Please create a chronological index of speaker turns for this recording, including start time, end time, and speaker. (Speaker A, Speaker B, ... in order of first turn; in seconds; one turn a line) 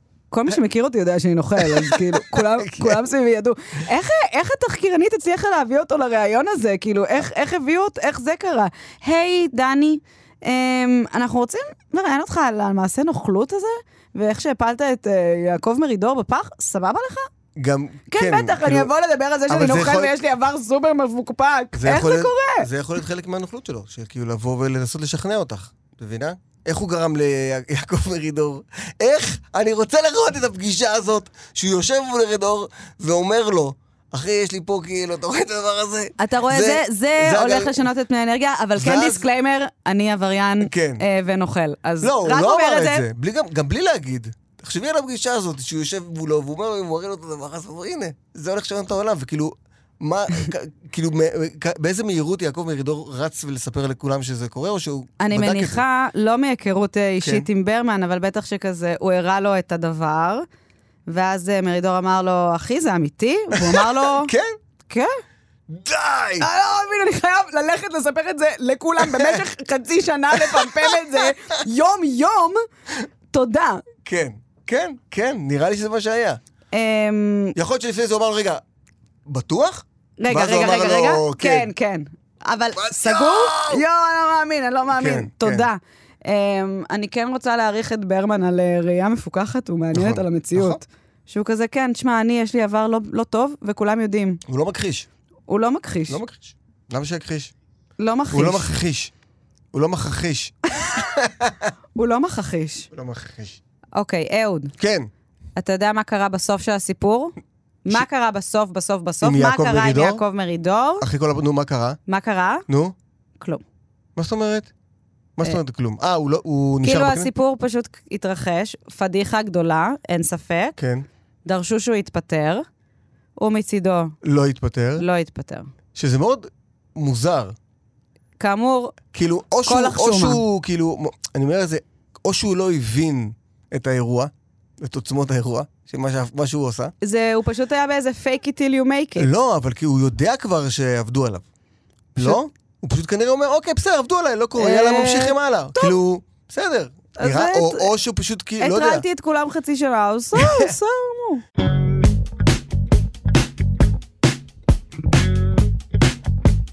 Speaker A: 0.3-17.3
Speaker B: 1.6-3.0
Speaker B: 17.6-18.9
Speaker A: 18.1-22.7
Speaker B: 19.5-20.1
Speaker B: 21.7-37.9
Speaker A: 36.2-43.0
Speaker B: 38.8-39.3
Speaker B: 40.6-41.0
Speaker B: 42.0-55.8
Speaker A: 55.2-60.4
Speaker A: 61.1-64.3
Speaker B: 63.5-64.6
Speaker B: 65.7-66.5
Speaker A: 66.4-72.6
Speaker B: 69.0-69.4
Speaker B: 70.3-71.3
Speaker A: 73.3-73.8
Speaker B: 74.0-76.4
Speaker A: 76.7-77.5
Speaker B: 77.5-78.6
Speaker B: 79.2-81.7
Speaker A: 80.2-94.4
Speaker B: 82.8-83.8
Speaker B: 84.9-85.7
Speaker B: 89.9-90.8
Speaker B: 94.5-95.1
Speaker A: 95.5-96.2
Speaker B: 96.1-97.5
Speaker A: 98.0-98.8
Speaker B: 98.3-99.1
Speaker B: 99.7-101.5
Speaker A: 102.0-102.9
Speaker B: 102.9-103.6
Speaker A: 104.0-104.7
Speaker B: 104.8-105.1
Speaker A: 105.6-111.0
Speaker B: 109.2-110.2
Speaker B: 111.0-112.0
Speaker A: 112.1-112.6
Speaker B: 112.7-112.9
Speaker B: 114.2-114.7
Speaker B: 115.4-117.3
Speaker A: 116.8-120.8
Speaker B: 120.8-121.0
Speaker A: 121.4-122.6
Speaker A: 123.4-124.1
Speaker B: 124.2-125.0
Speaker A: 125.0-125.7
Speaker B: 125.9-127.5
Speaker A: 128.4-128.9
Speaker B: 129.1-136.9
Speaker A: 129.7-130.4
Speaker A: 137.0-139.3
Speaker B: 139.2-141.4
Speaker B: 142.2-149.0
Speaker A: 144.6-145.9
Speaker A: 147.2-147.9
Speaker A: 148.6-151.4
Speaker B: 150.3-150.7